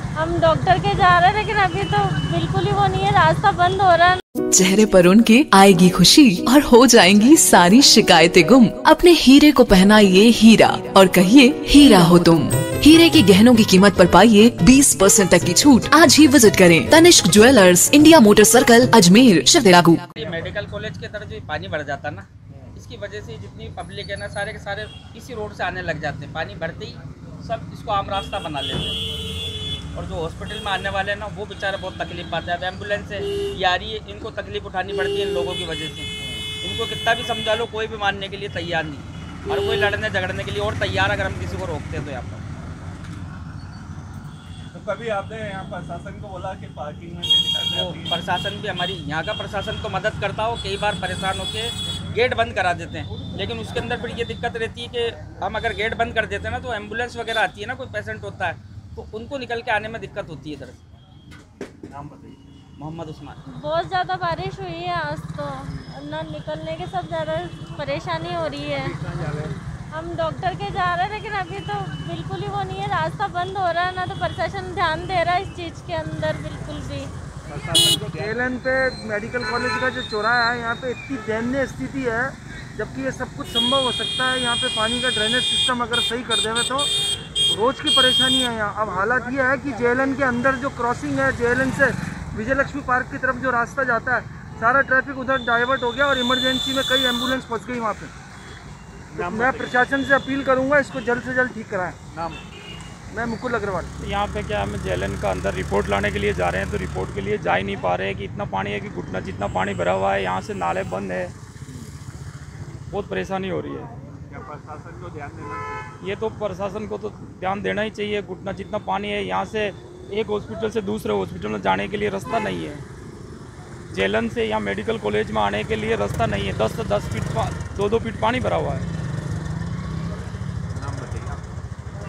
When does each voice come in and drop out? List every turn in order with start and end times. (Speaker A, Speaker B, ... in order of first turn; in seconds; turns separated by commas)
Speaker A: 0.2-4.2, Speaker B: 4.5-20.1, Speaker C: 20.1-29.0, Speaker C: 29.9-36.1, Speaker C: 36.6-42.4, Speaker D: 44.7-48.2, Speaker C: 47.6-60.8, Speaker D: 61.9-62.4, Speaker C: 62.8-63.4, Speaker A: 63.5-69.0, Speaker D: 68.8-69.5, Speaker A: 69.9-77.1, Speaker D: 77.5-78.5, Speaker E: 78.1-86.9, Speaker E: 87.5-98.1, Speaker D: 99.1-99.8, Speaker E: 99.2-102.0, Speaker D: 102.1-102.4, Speaker E: 103.1-103.9, Speaker F: 104.0-111.3, Speaker F: 112.9-113.9, Speaker D: 114.3-115.8, Speaker F: 116.0-122.8, Speaker F: 123.9-128.9, Speaker D: 130.7-131.4